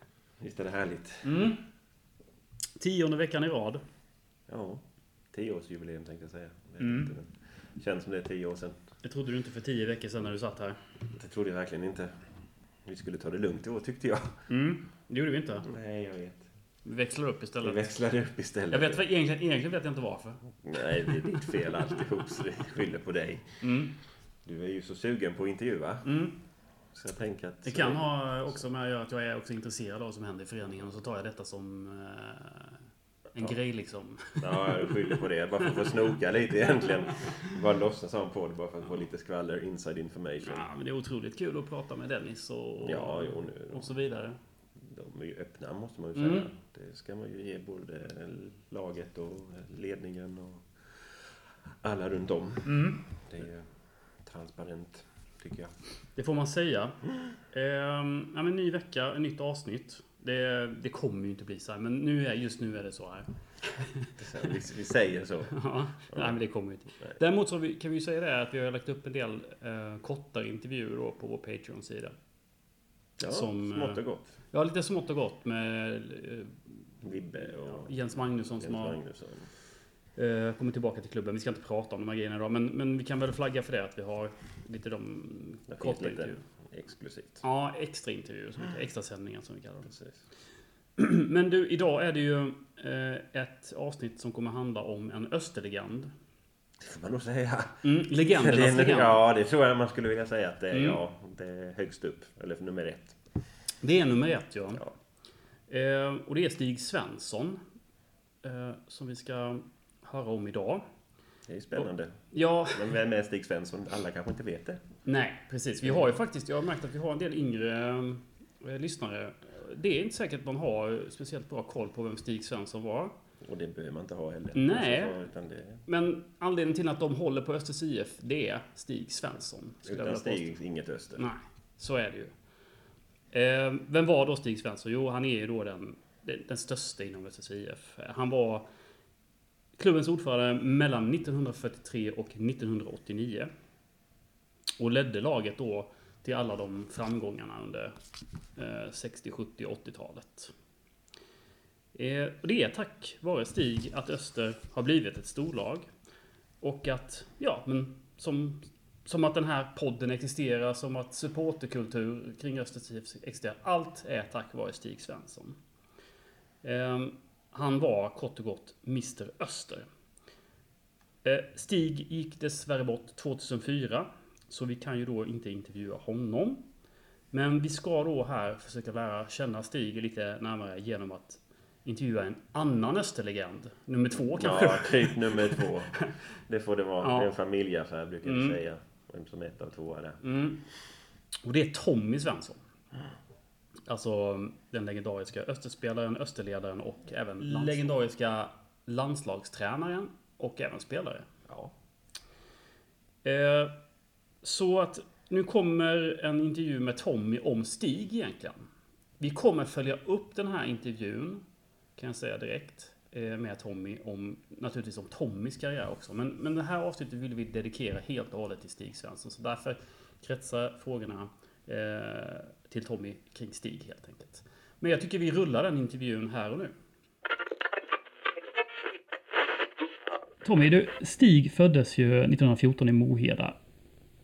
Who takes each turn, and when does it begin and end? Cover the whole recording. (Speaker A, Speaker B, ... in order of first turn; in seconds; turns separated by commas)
Speaker A: 0.4-1.4, Speaker B: 1.2-1.6, Speaker B: 2.8-3.8, Speaker A: 4.5-8.9, Speaker B: 6.8-7.1, Speaker B: 9.0-10.8, Speaker A: 11.1-12.3, Speaker A: 12.8-14.4, Speaker B: 14.5-15.7, Speaker A: 15.6-16.5, Speaker B: 16.8-17.9, Speaker A: 17.6-19.0, Speaker B: 18.7-20.5, Speaker A: 20.6-23.8, Speaker B: 23.6-24.0, Speaker A: 24.4-26.1, Speaker B: 26.1-26.4, Speaker A: 26.9-28.6, Speaker B: 27.6-32.7, Speaker B: 33.3-35.2, Speaker A: 34.4-40.7, Speaker B: 40.4-44.4, Speaker A: 42.8-43.9, Speaker A: 44.8-55.7, Speaker B: 46.2-46.5, Speaker B: 52.7-53.1, Speaker B: 56.2-57.0, Speaker B: 57.5-64.1, Speaker A: 64.2-66.4, Speaker B: 65.5-72.1, Speaker A: 73.2-74.3, Speaker B: 73.2-74.0, Speaker B: 74.5-76.6, Speaker A: 77.0-79.5, Speaker B: 77.6-79.0, Speaker B: 80.2-86.4, Speaker A: 85.7-87.4, Speaker B: 87.4-89.9, Speaker A: 89.9-90.2, Speaker B: 91.0-96.1, Speaker A: 96.8-103.2, Speaker B: 97.8-99.2, Speaker B: 100.7-101.0, Speaker B: 103.8-104.8, Speaker B: 105.7-107.6, Speaker B: 108.4-110.8, Speaker A: 111.5-114.9, Speaker B: 112.3-112.9, Speaker B: 115.0-123.1, Speaker A: 115.8-116.1, Speaker A: 123.4-125.8, Speaker B: 124.5-125.1, Speaker B: 125.9-130.5, Speaker A: 129.9-131.3, Speaker B: 131.2-132.3, Speaker B: 133.3-138.7, Speaker B: 139.8-143.5, Speaker B: 144.8-147.9, Speaker B: 148.6-150.5, Speaker B: 151.9-155.9, Speaker B: 156.6-165.6, Speaker B: 166.6-169.8, Speaker B: 171.2-176.7, Speaker B: 177.3-185.7, Speaker A: 184.4-190.2, Speaker B: 187.0-187.3, Speaker B: 188.2-188.6, Speaker B: 190.2-190.6, Speaker B: 191.4-192.6, Speaker B: 193.9-201.3, Speaker A: 197.5-197.8, Speaker A: 201.5-201.7, Speaker B: 203.2-203.8, Speaker B: 204.4-208.6, Speaker B: 209.2-211.4, Speaker B: 212.0-226.7, Speaker B: 230.4-233.6